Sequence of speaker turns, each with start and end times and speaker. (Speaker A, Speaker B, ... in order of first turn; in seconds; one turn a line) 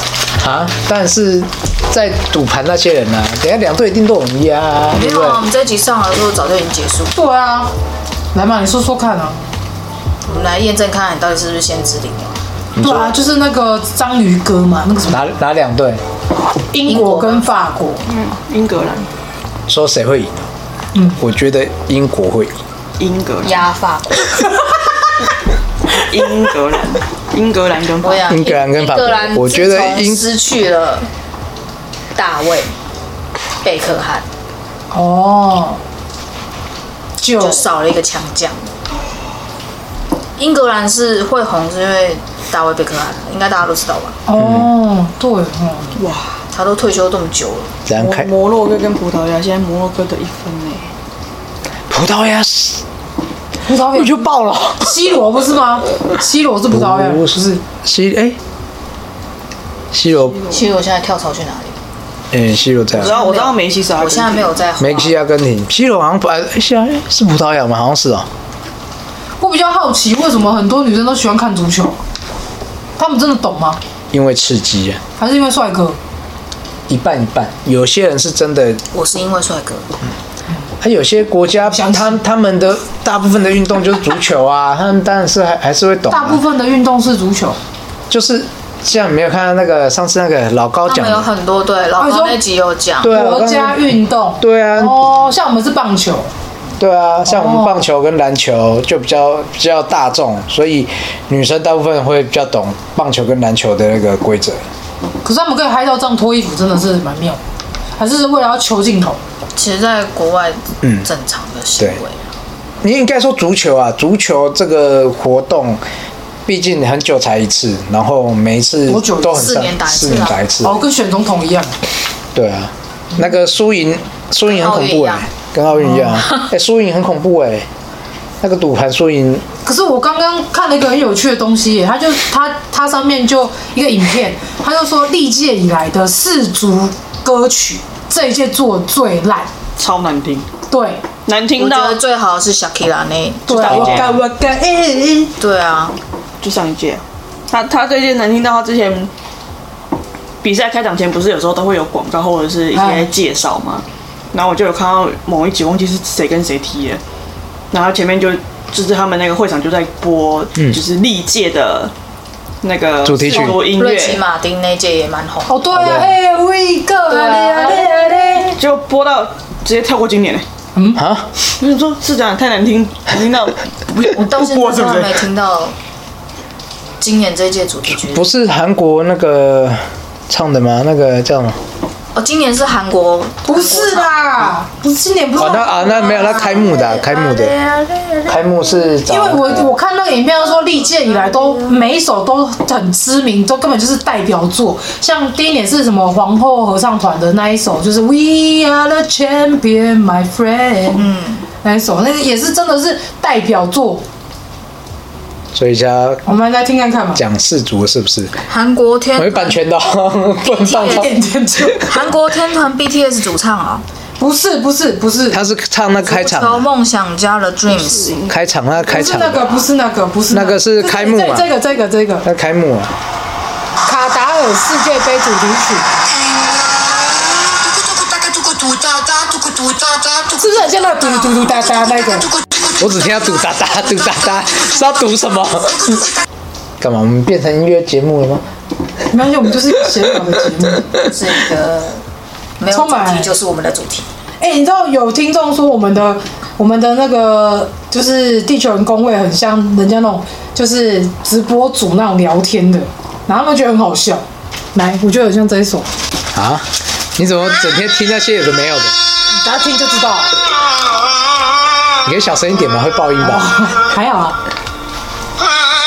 Speaker A: 0.4-5.4
Speaker B: 4.9-7.1
Speaker C: 7.1-7.7
Speaker C: 8.3-9.4
Speaker B: 10.2-12.4
Speaker A: 12.7-13.1
Speaker C: 12.8-15.2
Speaker A: 15.1-16.0
Speaker C: 16.7-18.0
Speaker B: 16.9-17.6
Speaker D: 18.0-19.1
Speaker A: 19.7-20.5
Speaker C: 20.9-21.2
Speaker A: 21.2-22.6
Speaker D: 23.0-23.7
Speaker B: 23.4-24.4
Speaker D: 25.9-28.3
Speaker B: 28.0-31.1
Speaker A: 28.3-30.2
Speaker B: 32.1-32.7
Speaker B: 33.6-34.2
Speaker C: 34.9-35.8
Speaker C: 37.2-37.7
Speaker B: 37.4-38.7
Speaker B: 40.4-44.2
Speaker C: 44.2-46.0
Speaker A: 44.4-44.7
Speaker D: 46.0-46.3
Speaker B: 46.5-47.8
Speaker A: 47.9-48.3
Speaker D: 47.9-50.9
Speaker A: 51.9-52.8
Speaker C: 53.6-54.3
Speaker A: 53.9-55.0
Speaker C: 54.8-57.6
Speaker A: 56.7-58.4
Speaker A: 59.9-60.4
Speaker D: 60.3-60.7
Speaker B: 60.5-61.8
Speaker A: 62.3-63.2
Speaker D: 62.9-64.6
Speaker B: 63.0-65.2
Speaker A: 64.8-68.3
Speaker C: 69.4-72.0
Speaker C: 73.0-73.8
Speaker A: 74.1-75.0
Speaker C: 75.2-76.0
Speaker A: 76.9-78.8
Speaker B: 78.9-79.9
Speaker A: 80.8-86.4
Speaker C: 81.7-82.2
Speaker C: 86.1-87.6
Speaker A: 88.1-91.3
Speaker B: 90.9-93.2
Speaker C: 92.0-92.4
Speaker A: 93.0-95.0
Speaker C: 93.1-96.3
Speaker A: 96.8-104.6
Speaker C: 97.3-97.8
Speaker C: 105.2-107.4
Speaker C: 108.0-109.2
Speaker B: 109.5-112.3
Speaker A: 110.8-111.1
Speaker A: 112.8-115.8
Speaker A: 116.5-120.8
Speaker C: 118.9-119.5
Speaker B: 119.3-120.4
Speaker C: 120.6-121.7
Speaker A: 122.3-127.7
Speaker B: 124.5-125.3
Speaker C: 125.8-126.1
Speaker A: 128.4-129.5
Speaker C: 129.6-139.5
Speaker D: 139.8-140.5
Speaker C: 140.7-141.0
Speaker D: 141.2-142.0
Speaker B: 141.6-144.0
Speaker C: 143.5-145.3
Speaker D: 143.7-144.1
Speaker A: 143.7-144.1
Speaker B: 145.4-146.0
Speaker D: 146.4-149.1
Speaker D: 150.4-157.0
Speaker C: 152.7-153.1
Speaker D: 157.7-161.9
Speaker D: 162.6-164.2
Speaker A: 163.0-163.6
Speaker B: 163.5-166.0
Speaker C: 165.5-168.6
Speaker A: 165.7-166.1
Speaker B: 167.1-167.9
Speaker D: 168.6-170.4
Speaker C: 170.7-171.0
Speaker A: 170.9-171.3
Speaker D: 171.6-175.2
Speaker B: 174.1-175.8
Speaker B: 177.0-178.3
Speaker A: 177.9-181.6
Speaker B: 182.1-184.1
Speaker C: 183.4-186.0
Speaker A: 185.4-187.5
Speaker B: 185.6-188.4
Speaker A: 188.3-189.7
Speaker C: 189.1-201.1
Speaker B: 190.8-191.8
Speaker B: 200.9-201.4
Speaker C: 201.6-204.0
Speaker A: 205.5-206.2
Speaker C: 206.2-207.2
Speaker A: 207.2-208.4
Speaker B: 208.5-209.6
Speaker A: 209.1-211.1
Speaker B: 210.6-211.1
Speaker C: 210.7-211.8
Speaker B: 211.8-213.8
Speaker C: 214.2-215.4
Speaker A: 215.3-216.7
Speaker B: 216.0-218.2
Speaker D: 217.7-218.4
Speaker A: 218.3-219.7
Speaker C: 218.9-222.2
Speaker A: 220.3-221.5
Speaker A: 222.2-222.9
Speaker C: 223.8-225.9
Speaker C: 230.2-232.3
Speaker A: 232.8-236.1
Speaker A: 236.8-238.4
Speaker C: 239.1-240.9
Speaker B: 240.9-242.0
Speaker B: 242.6-244.1
Speaker C: 242.7-243.3
Speaker C: 244.4-255.9
Speaker A: 256.3-259.0
Speaker C: 259.3-260.3
Speaker A: 262.0-263.5
Speaker C: 263.2-264.4